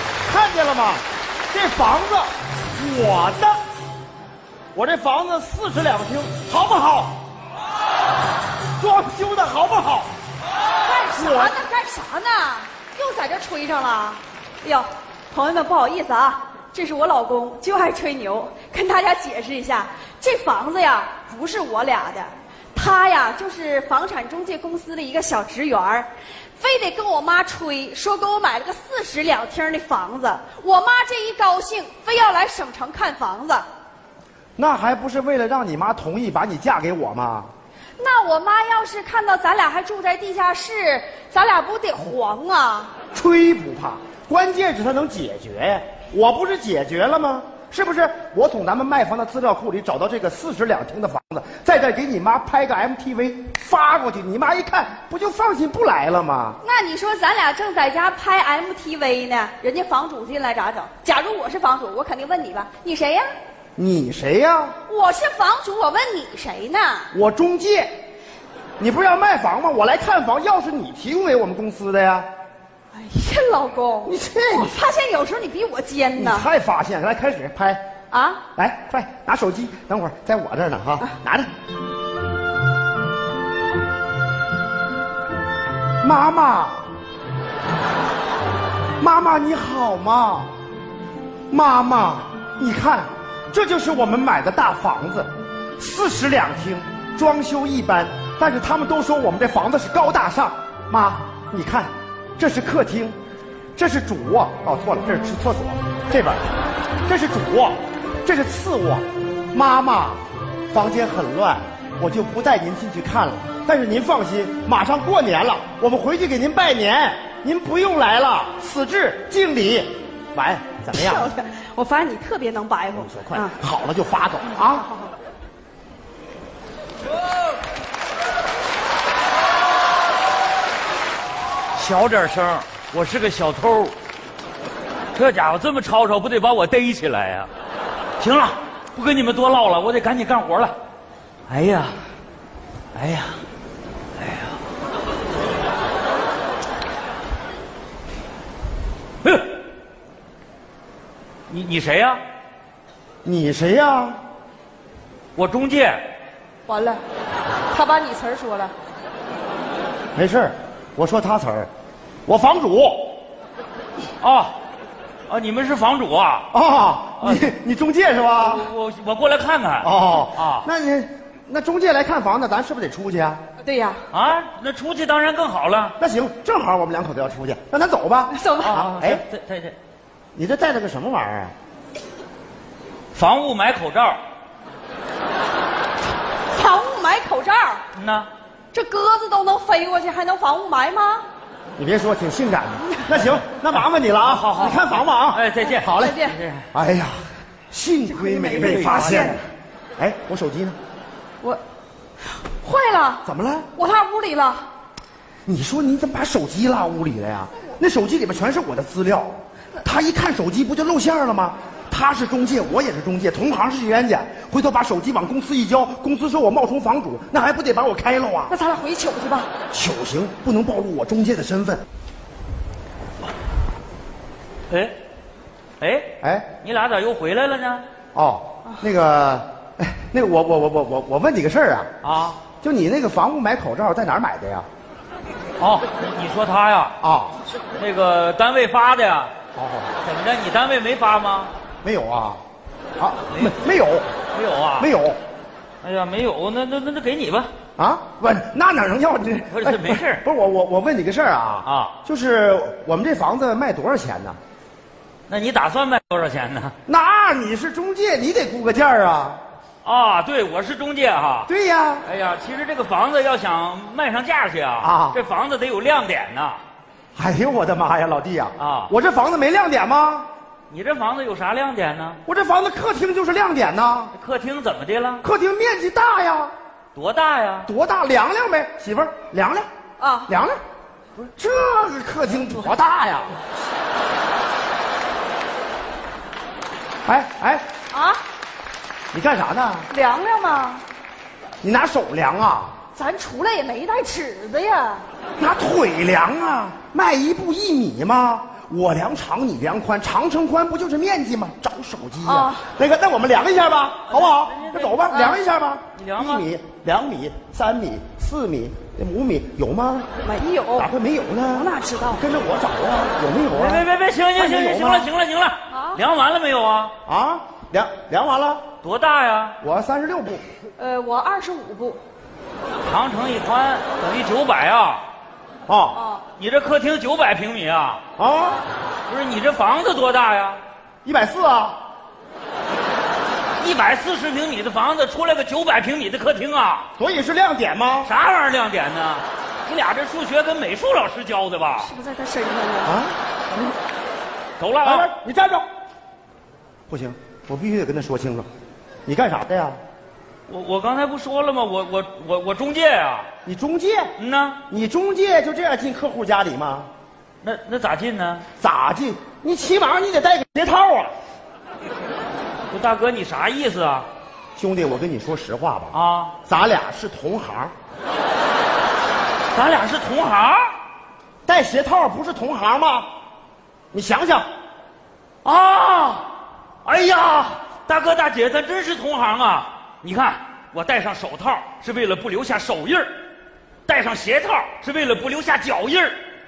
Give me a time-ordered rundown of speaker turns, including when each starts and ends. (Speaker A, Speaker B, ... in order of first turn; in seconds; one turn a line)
Speaker A: 0.3-3.6
Speaker A: 4.7-7.2
Speaker A: 8.8-10.1
Speaker B: 10.8-33.7
Speaker A: 11.2-11.6
Speaker A: 34.6-37.5
Speaker B: 38.0-42.9
Speaker A: 43.1-56.6
Speaker B: 56.6-63.3
Speaker A: 63.8-64.8
Speaker B: 64.9-67.1
Speaker A: 67.1-67.9
Speaker A: 68.8-72.3
Speaker B: 72.9-76.5
Speaker A: 74.0-74.8
Speaker A: 76.2-77.8
Speaker B: 78.1-78.4
Speaker A: 78.6-81.5
Speaker A: 86.0-86.9
Speaker A: 89.0-90.5
Speaker A: 91.5-103.2
Speaker A: 103.8-106.5
Speaker A: 107.1-121.3
Speaker B: 120.9-123.5
Speaker A: 122.9-124.9
Speaker C: 131.8-133.9
Speaker C: 135.2-137.5
Speaker C: 138.2-140.8
Speaker C: 141.5-142.0
Speaker C: 142.9-143.4
Speaker C: 144.2-144.6
Speaker C: 151.5-152.2
Speaker A: 153.2-154.2
Speaker C: 155.4-156.0
Speaker B: 156.7-157.0
Speaker B: 157.7-158.7
Speaker A: 160.2-161.7
Speaker A: 162.3-163.2
Speaker C: 164.2-164.5
Speaker C: 165.3-166.5
Speaker A: 166.5-168.7
Speaker C: 167.2-167.5
Speaker C: 168.4-170.7
Speaker A: 169.8-173.4
Speaker B: 173.6-174.0
Speaker C: 174.1-176.0
Speaker A: 176.0-179.2
Speaker B: 178.3-178.8
Speaker C: 178.6-179.8
Speaker A: 180.3-181.5
Speaker C: 183.2-184.2
Speaker B: 186.5-187.8
Speaker C: 187.9-188.3
Speaker B: 188.7-191.2
Speaker A: 191.8-196.2
Speaker C: 194.2-196.7
Speaker B: 195.8-196.4
Speaker A: 196.7-199.4
Speaker B: 198.1-199.4
Speaker C: 198.5-199.4
Speaker A: 200.0-200.8
Speaker B: 202.4-203.2
Speaker A: 203.2-203.7
Speaker B: 203.8-204.7
Speaker A: 205.5-218.6
Speaker B: 218.5-219.5
Speaker A: 219.7-221.8
Speaker C: 224.7-225.0
Speaker C: 225.8-226.1
Speaker A: 226.2-226.5
Speaker C: 226.6-227.8
Speaker A: 228.1-231.9
Speaker C: 232.0-232.4
Speaker A: 232.6-234.7
Speaker C: 235.6-236.9
Speaker A: 237.0-237.4
Speaker C: 237.8-239.3
Speaker A: 239.6-240.0
Speaker C: 240.0-241.5
Speaker A: 241.8-242.4
Speaker A: 243.0-244.1
Speaker C: 244.3-244.9
Speaker A: 244.8-245.2
Speaker C: 245.8-247.5
Speaker A: 247.8-254.4
Speaker C: 249.5-250.2
Speaker C: 251.6-251.9
Speaker C: 255.3-256.7
Speaker A: 256.9-259.4
Speaker C: 259.8-261.5
Speaker A: 261.5-262.1
Speaker C: 262.1-266.6
Speaker A: 264.8-265.2
Speaker A: 267.1-270.3
Speaker C: 268.6-268.9
Speaker C: 270.7-272.2
Speaker A: 272.3-274.1
Speaker C: 274.1-275.2
Speaker A: 275.2-276.5
Speaker C: 276.9-277.7
Speaker A: 277.7-279.7
Speaker B: 280.0-280.3
Speaker A: 280.3-280.6
Speaker A: 281.2-283.4
Speaker A: 287.1-287.7
Speaker B: 287.9-288.2
Speaker A: 289.1-289.9
Speaker B: 289.9-290.8
Speaker A: 291.6-292.8
Speaker B: 292.9-295.1
Speaker A: 295.4-310.1
Speaker B: 302.2-302.7
Speaker C: 304.1-305.4
Speaker C: 306.0-306.5
Speaker B: 310.2-310.9
Speaker A: 310.8-315.1
Speaker B: 311.5-312.2
Speaker C: 313.5-316.9
Speaker B: 315.7-316.0
Speaker A: 317.1-318.7
Speaker C: 318.8-319.6
Speaker A: 319.6-320.4
Speaker B: 320.8-322.0
Speaker C: 322.9-325.0
Speaker A: 325.7-326.0
Speaker B: 325.9-326.2
Speaker C: 326.4-328.0
Speaker A: 328.2-328.6
Speaker C: 329.1-330.6
Speaker A: 331.0-331.8
Speaker C: 333.6-336.9
Speaker A: 337.0-338.1
Speaker C: 338.0-341.9
Speaker B: 341.8-343.0
Speaker A: 342.9-343.7
Speaker C: 344.6-345.1
Speaker A: 344.8-345.7
Speaker A: 346.9-348.5
Speaker A: 349.1-349.8
Speaker C: 350.5-353.3
Speaker A: 353.5-354.1
Speaker C: 354.2-354.6
Speaker A: 354.7-356.9
Speaker C: 357.4-358.4
Speaker A: 358.6-361.1
Speaker C: 362.7-364.1
Speaker A: 364.6-367.7
Speaker C: 365.9-366.3
Speaker C: 369.5-370.7
Speaker A: 371.5-373.1
Speaker A: 373.9-374.5
Speaker C: 375.4-376.3
Speaker C: 376.9-383.1
Speaker C: 383.9-386.2